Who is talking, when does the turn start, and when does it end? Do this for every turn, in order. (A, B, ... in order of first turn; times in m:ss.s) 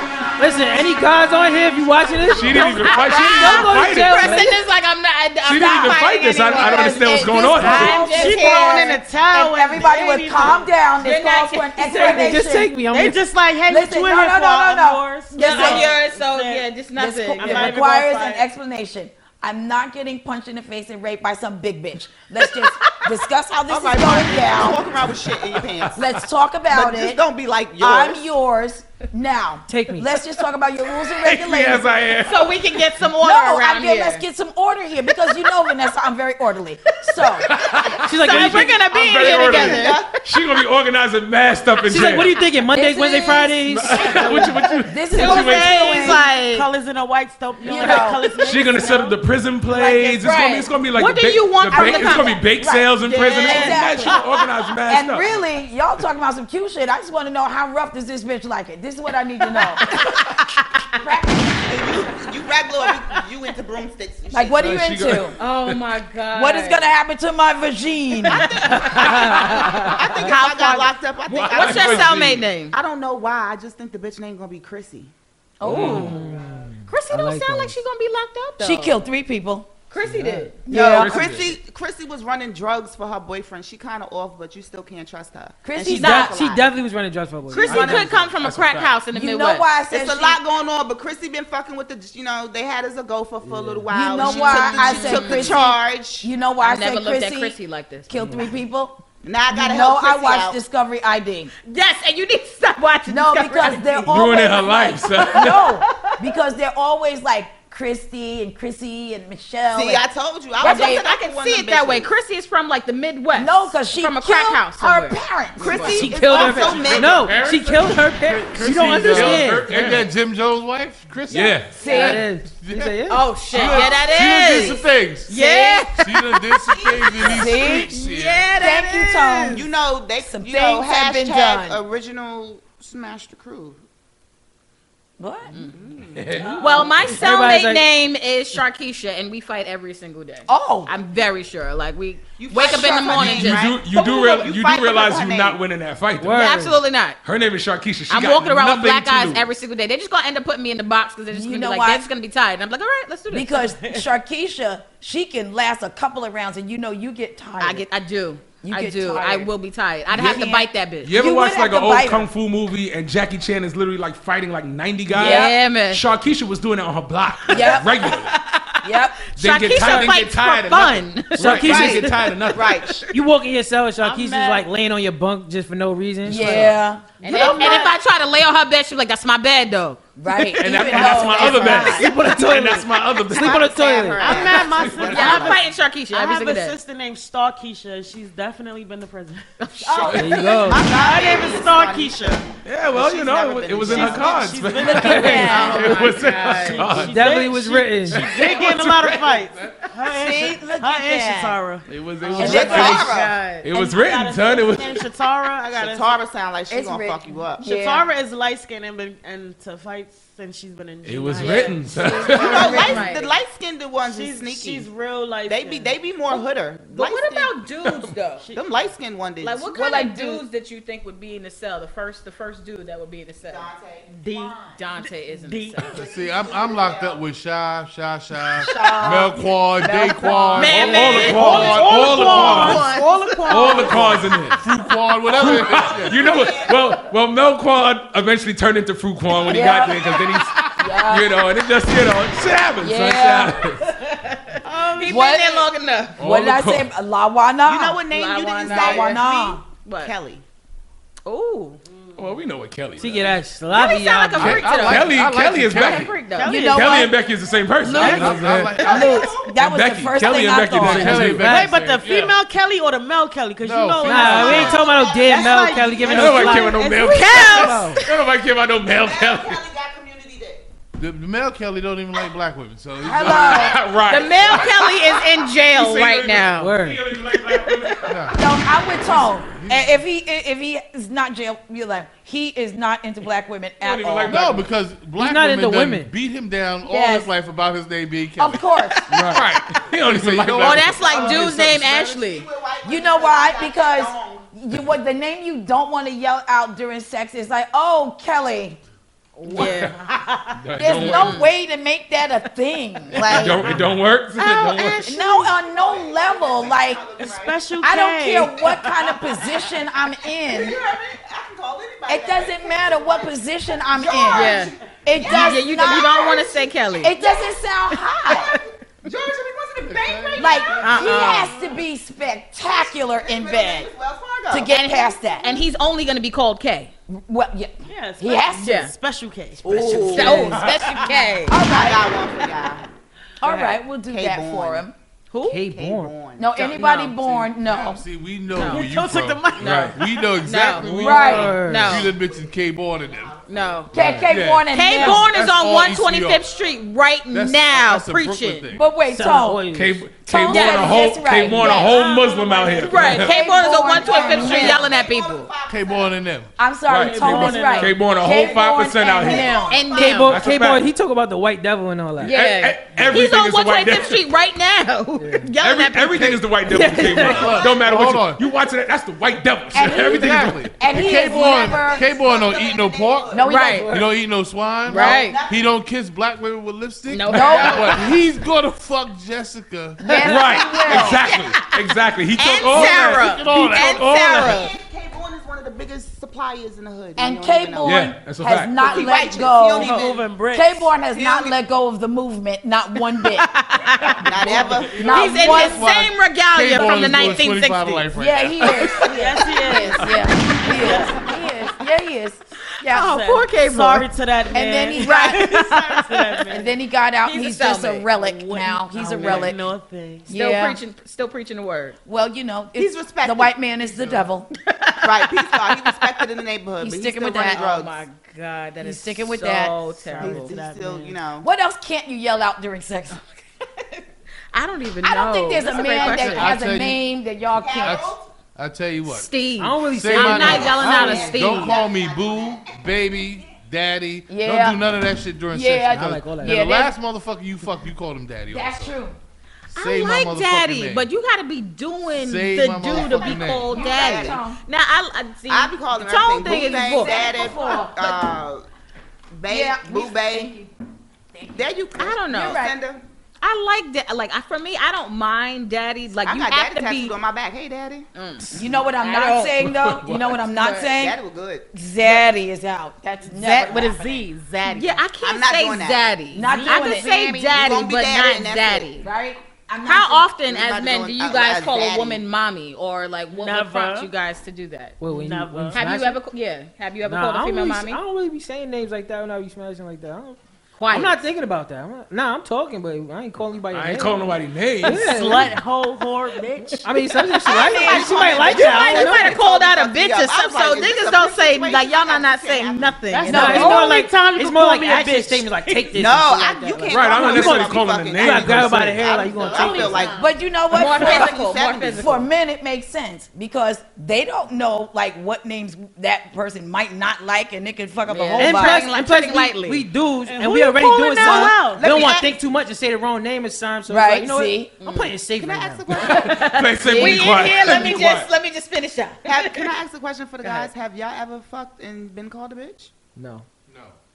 0:00.4-0:04.6 A
0:02.3-0:04.5 B
0:02.5-0:09.0 C
0:05.4-0:08.0 B
0:05.8-0:12.7 D
0:07.9-0:10.7 E
0:11.0-0:12.2 C
0:11.8-0:13.2 A
0:12.8-0:16.7 E
0:13.7-0:15.9 D
0:15.3-0:17.8 C
0:17.0-0:24.8 D
0:17.4-0:18.4 E
0:23.7-0:26.0 F
0:25.9-0:27.2 D
0:26.7-0:28.2 F
0:27.8-0:31.9 D
0:29.7-0:30.1 A
0:31.2-0:32.6 B
0:32.2-0:34.2 C
0:33.2-0:37.5 D
0:36.9-0:40.2 C
0:37.4-0:42.4 B
0:38.0-0:38.7 A
0:39.1-0:40.1 F
0:41.8-0:44.3 A
0:42.7-0:46.2 D
0:43.7-0:45.8 B
0:45.1-0:46.7 C
0:45.7-0:49.2 E
0:47.6-0:48.3 D
0:47.6-0:48.3 C
0:48.4-0:55.4 B
0:49.7-0:50.2 D
0:50.1-0:52.5 C
0:51.7-0:54.2 D
0:53.0-0:54.2 C
0:54.9-0:59.9 D
0:59.6-1:01.0 C
1:01.0-1:01.8 D
1:01.7-1:04.8 F
1:04.3-1:05.4 D
1:04.6-1:05.8 B
1:05.4-1:06.8 C
1:06.3-1:08.5 D
1:08.3-1:12.8 C
1:08.3-1:15.1 F
1:08.7-1:10.0 A
1:08.9-1:09.6 B
1:11.3-1:12.5 B
1:15.6-1:16.2 D
1:15.6-1:16.2 C
1:15.6-1:16.2 B
1:15.7-1:17.8 A
1:16.9-1:19.0 C
1:18.6-1:19.7 D
1:19.9-1:20.6 C
1:20.0-1:20.6 A
1:20.7-1:21.2 D
1:20.7-1:26.7 F
1:20.8-1:21.6 B
1:25.6-1:26.3 D
1:25.9-1:28.1 A
1:25.9-1:26.3 C
1:27.5-1:28.2 F
1:27.5-1:29.7 C
1:27.8-1:29.0 B
1:29.1-1:30.4 D
1:29.9-1:36.3 F
1:33.4-1:33.9 A
1:33.9-1:37.6 D
1:34.2-1:35.6 C
1:36.6-1:38.1 C
1:38.1-1:41.5 D
1:38.2-1:38.5 A
1:39.2-1:40.6 F
1:41.6-1:44.1 C
1:43.1-1:50.0 D
1:44.1-1:45.8 B
1:45.2-1:46.1 C
1:49.7-1:52.1 F
1:50.6-1:51.1 D
1:50.6-1:56.1 C
1:53.3-1:56.1 D
1:55.6-1:57.3 F
1:55.8-1:59.8 A
1:56.3-2:05.4 G
1:58.6-2:00.1 B
2:01.3-2:01.8 B
2:01.7-2:02.2 D
2:01.8-2:03.2 A
2:01.9-2:02.2 C
2:03.1-2:09.6 C
2:05.3-2:05.9 D
2:06.0-2:08.5 G
2:07.2-2:08.0 D
2:08.5-2:11.8 D
2:09.5-2:13.8 F
2:15.2-2:15.5 D
2:15.6-2:16.9 F
2:16.2-2:16.6 B
2:16.4-2:17.8 A
2:16.6-2:23.7 C
2:20.5-2:20.9 D
2:22.4-2:25.6 F
2:23.1-2:26.5 B
2:26.2-2:26.8 A
2:26.3-2:27.2 C
2:27.2-2:29.4 B
2:28.1-2:33.7 C
2:31.3-2:32.0 D
2:33.3-2:37.8 D
2:37.6-2:41.1 C
2:38.6-2:39.5 D
2:40.1-2:42.3 D
2:41.0-2:48.4 B
2:45.1-2:45.5 D
2:45.1-2:46.0 C
2:47.5-2:51.9 C
2:47.5-2:48.1 D
2:48.8-2:49.2 D
2:49.4-2:53.0 B
2:51.4-2:52.1 A
2:51.6-2:53.0 F
2:53.1-2:56.8 A
2:54.0-2:54.7 E
2:56.2-2:57.1 D
2:57.2-2:57.9 E
2:57.2-3:00.5 C
2:57.2-2:57.9 F
3:00.2-3:02.1 D
3:00.5-3:03.7 B
3:00.9-3:02.0 F
3:01.7-3:04.5 A
3:03.3-3:05.6 F
3:04.2-3:09.4 E
3:04.7-3:05.4 B
3:05.0-3:06.8 C
3:09.6-3:10.6 C
3:09.8-3:16.2 F
3:10.1-3:10.4 B
3:10.1-3:10.9 A
3:10.7-3:12.4 E
3:12.6-3:17.3 B
3:13.8-3:26.2 E
3:14.8-3:16.0 D
3:15.3-3:17.0 C
3:17.0-3:18.3 A
3:18.1-3:19.9 B
3:18.3-3:19.8 G
3:20.0-3:21.6 D
3:21.8-3:25.0 B
3:22.3-3:23.1 D
3:22.4-3:23.3 F
3:22.4-3:23.7 C
3:25.7-3:27.7 F
3:26.7-3:28.1 D
3:27.6-3:33.0 E
3:31.0-3:32.8 B
3:31.4-3:33.3 C
3:32.3-3:33.0 D
3:32.3-3:34.9 F
3:34.0-3:36.0 E
3:35.4-3:37.6 F
3:36.3-3:38.5 C
3:38.4-3:38.7 E
3:38.5-3:39.8 F
3:39.4-3:43.7 C
3:39.7-3:40.4 D
3:43.4-3:44.8 F
3:44.1-3:46.0 E
3:44.7-3:45.9 C
3:45.8-3:47.2 F
3:45.9-3:52.9 G
3:48.6-3:51.6 F
3:48.8-3:50.7 D
3:50.0-3:53.6 C
3:50.8-3:52.9 B
3:50.9-3:54.3 E
3:52.2-3:53.0 F
3:53.5-3:54.6 B
3:53.7-3:56.3 G
3:55.3-4:03.9 B
3:55.7-3:57.0 F
3:59.4-4:00.2 D
4:00.8-4:01.5 D
4:02.8-4:03.7 D
4:03.8-4:06.2 C
4:04.6-4:05.1 E
4:05.0-4:05.7 D
4:06.2-4:06.9 B
4:06.2-4:08.0 D
4:07.6-4:10.4 F
4:08.1-4:09.2 C
4:08.6-4:09.6 D
4:09.8-4:10.1 C
4:11.2-4:11.8 C
4:11.9-4:12.4 E
4:12.2-4:13.4 B
4:13.0-4:14.7 A
4:13.7-4:16.6 C
4:14.4-4:16.2 G
4:14.6-4:18.8 B
4:16.2-4:17.3 E
4:16.4-4:17.2 D
4:17.8-4:21.3 D
4:17.9-4:18.4 E
4:17.9-4:19.4 G
4:18.7-4:19.6 F
4:19.6-4:21.5 B
4:20.7-4:22.4 G
4:20.9-4:21.8 A
4:21.4-4:27.9 E
4:23.6-4:24.8 G
4:24.0-4:26.8 A
4:24.6-4:26.1 F
4:26.1-4:29.6 B
4:27.0-4:27.8 C
4:27.4-4:28.0 A
4:28.9-4:30.6 F
4:31.0-4:33.9 G
4:33.0-4:33.8 D
4:33.2-4:38.3 B
4:34.0-4:36.8 C
4:36.6-4:37.0 A
4:37.4-4:38.1 C
4:38.0-4:38.4 G
4:38.3-4:44.4 D
4:39.0-4:40.0 G
4:43.8-4:44.7 B
4:44.2-4:48.7 G
4:45.2-4:46.1 A
4:46.9-4:47.2 D
4:46.9-4:47.2 C
4:48.4-4:49.1 D
4:49.0-4:49.7 C
4:49.1-4:51.8 B
4:49.3-4:51.9 G
4:50.6-4:52.5 C
4:51.0-4:54.5 F
4:52.8-4:58.8 D
4:59.4-4:59.9 C
4:59.4-5:00.6 E
4:59.5-4:59.9 B
5:00.5-5:01.5 B
5:00.8-5:03.6 D
5:01.0-5:01.5 C
5:03.1-5:03.8 F
5:03.3-5:05.1 B
5:04.3-5:05.5 E
5:05.0-5:07.0 D
5:05.2-5:07.7 F
5:07.2-5:09.1 E
5:07.8-5:10.8 D
5:10.4-5:17.6 F
5:12.1-5:16.3 D
5:14.3-5:17.1 C
5:17.0-5:18.5 D
5:18.2-5:18.6 C
5:18.2-5:21.7 F
5:19.8-5:21.1 G
5:20.4-5:23.9 D
5:20.8-5:21.5 C
5:22.6-5:25.6 F
5:24.5-5:25.5 D
5:24.7-5:26.9 C
5:27.1-5:28.8 D
5:27.8-5:31.3 E
5:28.5-5:28.9 C
5:29.6-5:30.6 F
5:30.1-5:31.6 C
5:30.1-5:30.6 D
5:31.5-5:32.2 D
5:31.6-5:32.8 F
5:33.4-5:34.9 D
5:33.5-5:33.7 C
5:34.0-5:34.8 F
5:35.3-5:35.6 C
5:35.4-5:36.1 A
5:35.5-5:36.5 F
5:36.4-5:38.0 D
5:36.5-5:37.2 C
5:37.5-5:43.4 G
5:38.5-5:38.9 C
5:38.6-5:40.3 E
5:39.6-5:42.2 C
5:39.6-5:40.0 B
5:40.9-5:41.6 D
5:41.0-5:42.0 A
5:41.9-5:44.0 F
5:43.5-5:43.9 C
5:43.9-5:45.3 D
5:44.0-5:46.4 G
5:44.2-5:44.6 B
5:44.7-5:48.7 C
5:46.4-5:46.8 F
5:47.3-5:48.8 G
5:48.7-5:49.6 D
5:49.1-5:50.0 A
5:49.7-5:53.4 B
5:50.2-5:52.0 D
5:50.5-5:51.2 C
5:51.4-5:53.3 E
5:52.7-5:55.5 C
5:53.2-5:54.9 D
5:53.5-5:56.2 F
5:55.7-5:56.5 G
5:56.6-6:00.0 D
5:56.9-5:59.7 B
5:57.0-5:58.2 E
5:59.0-6:00.4 F
5:59.7-6:00.4 C
5:59.9-6:02.4 A
6:00.2-6:00.9 B
6:02.2-6:06.4 C
6:02.2-6:04.2 B
6:05.2-6:05.5 A
6:05.6-6:10.8 B
6:06.1-6:06.5 G
6:06.6-6:07.5 A
6:07.0-6:08.5 G
6:07.4-6:07.9 F
6:09.7-6:12.1 D
6:09.8-6:20.1 G
6:10.9-6:13.5 F
6:13.3-6:14.1 D
6:13.4-6:13.9 C
6:14.8-6:15.7 F
6:14.9-6:15.4 C
6:17.1-6:18.1 C
6:17.3-6:18.0 D
6:20.0-6:21.3 D
6:20.2-6:24.6 B
6:20.8-6:21.8 C
6:22.4-6:24.7 C
6:22.6-6:22.9 F
6:22.7-6:24.6 G
6:24.3-6:28.1 F
6:27.2-6:33.5 D
6:27.8-6:28.9 B
6:28.8-6:30.3 F
6:29.7-6:30.9 E
6:31.1-6:31.6 F
6:33.2-6:34.3 C
6:34.2-6:35.2 F
6:34.2-6:38.7 G
6:35.0-6:35.9 D
6:35.1-6:38.1 C
6:38.1-6:43.2 D
6:38.9-6:40.2 E
6:39.6-6:39.9 C
6:40.8-6:41.2 E
6:42.8-6:44.1 C
6:43.0-6:46.7 E
6:44.5-6:45.5 D
6:44.9-6:46.5 C
6:46.5-6:49.6 D
6:47.3-6:48.1 C
6:48.1-6:50.3 E
6:50.2-6:50.8 D
6:50.3-6:52.0 C
6:52.0-6:54.5 D
6:52.7-6:53.5 F
6:54.6-6:56.2 C
6:55.0-6:58.0 F
6:56.8-6:57.6 D
6:57.3-7:00.5 C
6:58.8-6:59.9 D
7:00.1-7:01.2 E
7:00.2-7:01.5 F
7:01.4-7:03.2 D
7:03.8-7:06.6 C
7:05.0-7:08.1 D
7:05.6-7:06.4 F
7:06.1-7:07.0 G
7:07.5-7:08.3 F
7:07.8-7:09.3 G
7:09.0-7:11.8 C
7:09.6-7:11.2 A
7:09.8-7:18.9 G
7:10.3-7:12.8 F
7:14.3-7:14.8 D
7:15.5-7:16.9 D
7:15.9-7:16.6 A
7:18.5-7:19.2 D
7:19.7-7:21.1 G
7:19.7-7:27.2 C
7:22.1-7:23.8 G
7:22.9-7:24.4 F
7:23.7-7:24.6 D
7:25.5-7:28.6 F
7:26.4-7:28.4 D
7:29.3-7:30.6 F
7:29.5-7:30.7 D
7:31.3-7:31.6 D
7:31.5-7:33.0 F
7:32.0-7:32.6 C
7:32.3-7:32.8 D
7:33.4-7:37.2 C
7:36.2-7:38.1 F
7:38.1-7:39.6 C
7:38.5-7:41.2 D
7:39.6-7:40.4 B
7:40.5-7:40.9 C
7:40.6-7:41.7 F
7:41.7-7:44.2 D
7:43.3-7:44.1 C
7:43.3-7:45.0 E
7:44.6-7:49.0 C
7:45.1-7:49.0 F
7:46.3-7:47.1 D
7:49.0-7:50.3 D
7:49.8-7:55.0 C
7:50.5-7:52.2 F
7:53.3-7:54.1 E
7:55.0-7:56.2 A
7:55.1-7:55.8 E
7:55.7-7:58.0 C
7:57.0-8:05.6 A
8:00.8-8:01.2 C
8:03.7-8:05.1 B
8:04.8-8:07.0 E
8:06.8-8:09.3 A
8:07.4-8:13.0 F
8:07.5-8:08.3 D
8:07.9-8:08.6 E
8:08.5-8:13.8 C
8:13.1-8:16.0 E
8:13.2-8:20.1 A
8:13.2-8:13.9 D
8:15.9-8:22.2 F
8:16.9-8:19.1 B
8:19.4-8:20.3 E
8:20.2-8:21.4 D
8:20.7-8:22.2 C
8:21.9-8:28.9 D
8:28.1-8:29.8 C
8:28.4-8:35.8 A
8:30.2-8:32.1 E
8:31.2-8:32.3 F
8:33.9-8:34.7 D
8:34.8-8:35.1 C
8:35.3-8:37.0 F
8:36.0-8:39.7 C
8:36.0-8:38.3 B
8:39.2-8:42.9 F
8:43.2-8:43.4 A
8:43.7-8:44.0 G